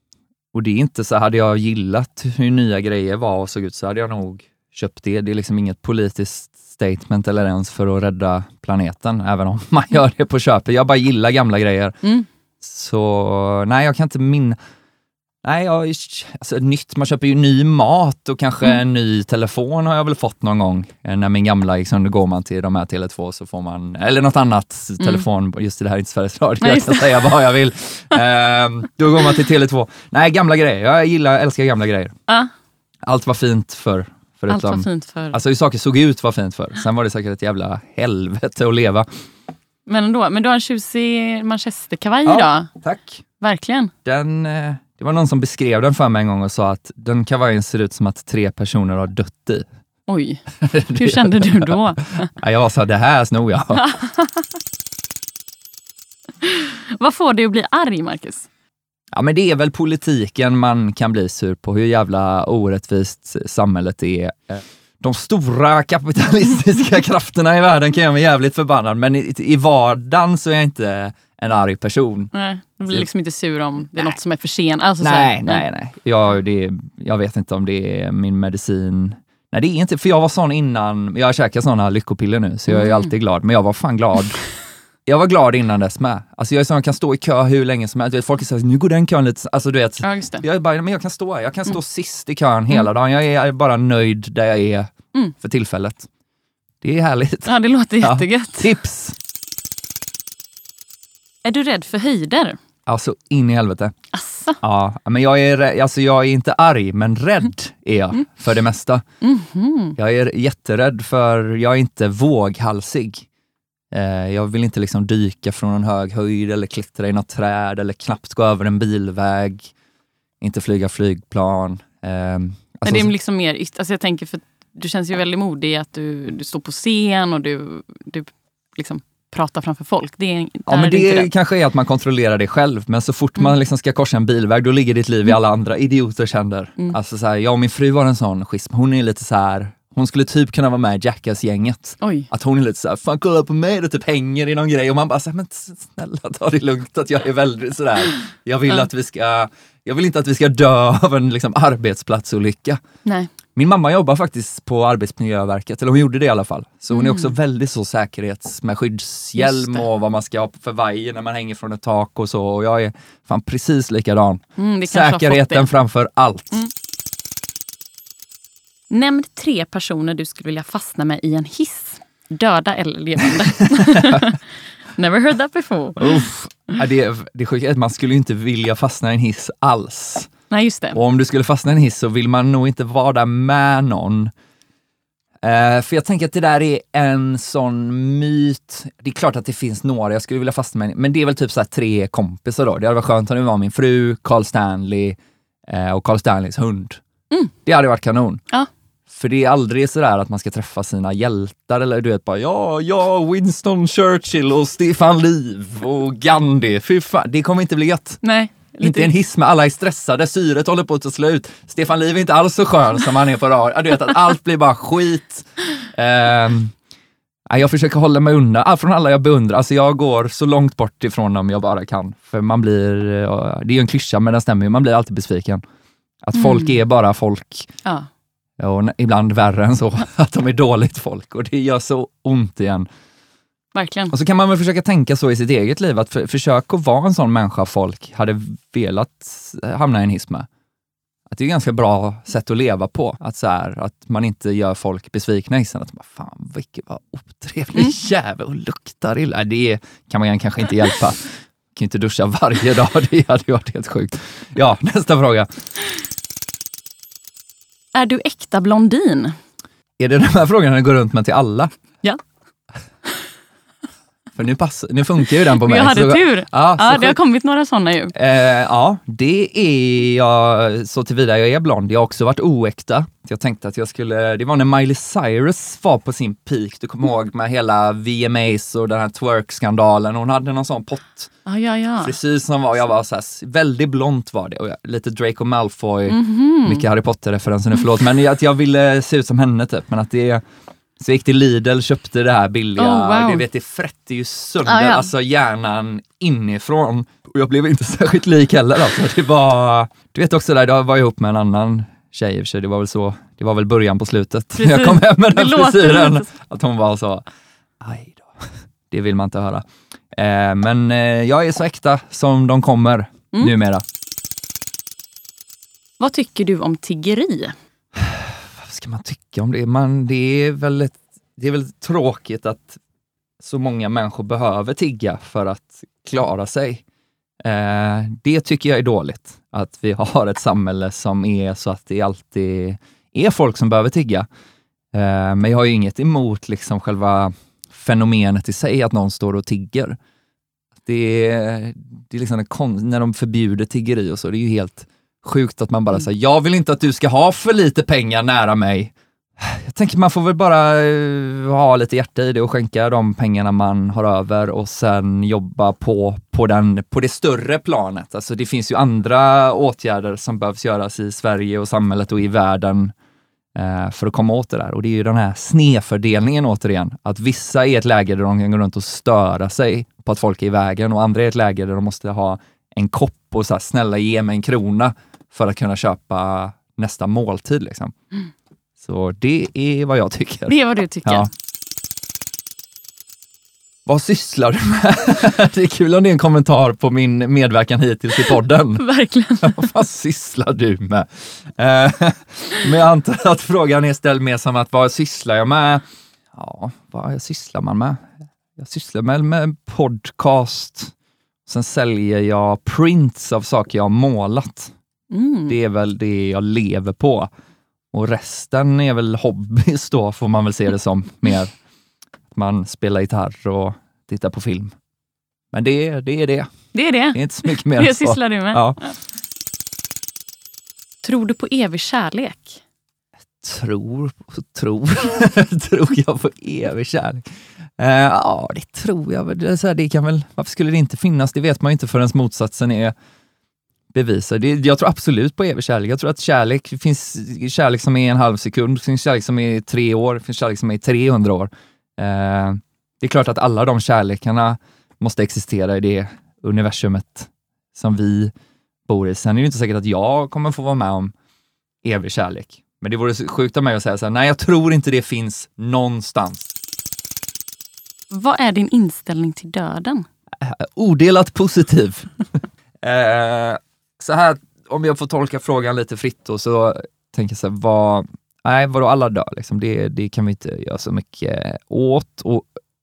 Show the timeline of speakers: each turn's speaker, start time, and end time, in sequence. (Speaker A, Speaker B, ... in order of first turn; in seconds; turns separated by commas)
Speaker A: 0.5-12.0, Speaker A: 12.6-14.6, Speaker A: 15.4-32.1, Speaker B: 26.6-27.3, Speaker A: 33.0-39.1, Speaker B: 34.5-35.4, Speaker B: 39.9-42.7, Speaker A: 42.2-43.2, Speaker B: 43.4-43.9, Speaker A: 44.0-49.6, Speaker B: 50.1-50.4, Speaker A: 50.6-53.9, Speaker B: 50.9-52.3, Speaker B: 53.7-54.5, Speaker B: 56.4-58.5, Speaker A: 59.1-72.3, Speaker B: 72.3-75.6, Speaker A: 75.0-84.4, Speaker B: 82.7-83.1, Speaker A: 85.0-96.1, Speaker B: 90.0-90.4, Speaker A: 96.8-99.2, Speaker B: 97.5-98.7, Speaker B: 101.4-102.6, Speaker A: 102.8-103.9, Speaker B: 104.1-104.6, Speaker A: 104.6-109.0, Speaker B: 109.2-110.0, Speaker A: 110.0-113.2, Speaker A: 113.9-119.7, Speaker A: 120.4-123.1, Speaker B: 122.8-131.3, Speaker A: 130.7-152.8, Speaker B: 142.0-142.3, Speaker B: 153.0-153.3, Speaker A: 153.5-166.7, Speaker B: 156.9-157.3, Speaker B: 159.4-159.8, Speaker B: 164.6-165.7, Speaker B: 168.9-174.4, Speaker A: 173.7-174.3, Speaker B: 174.9-176.2, Speaker A: 176.0-180.3, Speaker B: 180.5-181.0, Speaker A: 180.9-184.3, Speaker A: 185.4-197.0, Speaker A: 197.6-198.4, Speaker A: 199.1-208.2, Speaker B: 208.2-209.1, Speaker A: 208.8-216.7, Speaker A: 217.5-225.6, Speaker A: 226.2-227.7, Speaker B: 226.3-226.7, Speaker A: 228.6-232.9, Speaker B: 233.7-234.1, Speaker A: 234.1-240.5, Speaker A: 241.3-255.5, Speaker B: 257.9-259.4, Speaker A: 260.0-261.7, Speaker A: 264.3-267.1, Speaker B: 265.3-268.1, Speaker A: 268.1-281.3, Speaker B: 281.4-282.1, Speaker A: 282.0-290.4, Speaker B: 286.1-286.8, Speaker A: 291.0-307.2, Speaker B: 292.8-293.4, Speaker B: 294.6-295.1, Speaker B: 304.6-306.3, Speaker A: 307.8-313.8, Speaker B: 316.0-317.5, Speaker A: 317.9-322.8, Speaker A: 323.4-326.8, Speaker A: 327.4-334.3, Speaker A: 334.9-340.0, Speaker A: 340.8-362.9, Speaker A: 363.5-377.9, Speaker A: 378.8-381.3, Speaker B: 380.5-381.3, Speaker A: 383.9-388.8, Speaker B: 388.8-389.7, Speaker A: 389.4-395.8, Speaker A: 396.3-400.9, Speaker A: 401.4-404.7, Speaker B: 405.1-405.6, Speaker A: 405.5-407.3, Speaker A: 407.9-411.5, Speaker A: 412.3-414.7, Speaker A: 415.5-416.5, Speaker B: 416.7-418.6, Speaker A: 417.1-418.9, Speaker B: 421.0-422.6, Speaker A: 423.4-432.9, Speaker A: 433.9-448.3, Speaker A: 448.9-451.1, Speaker A: 451.8-456.5, Speaker B: 458.1-460.1, Speaker A: 460.4-462.1, Speaker A: 462.8-472.5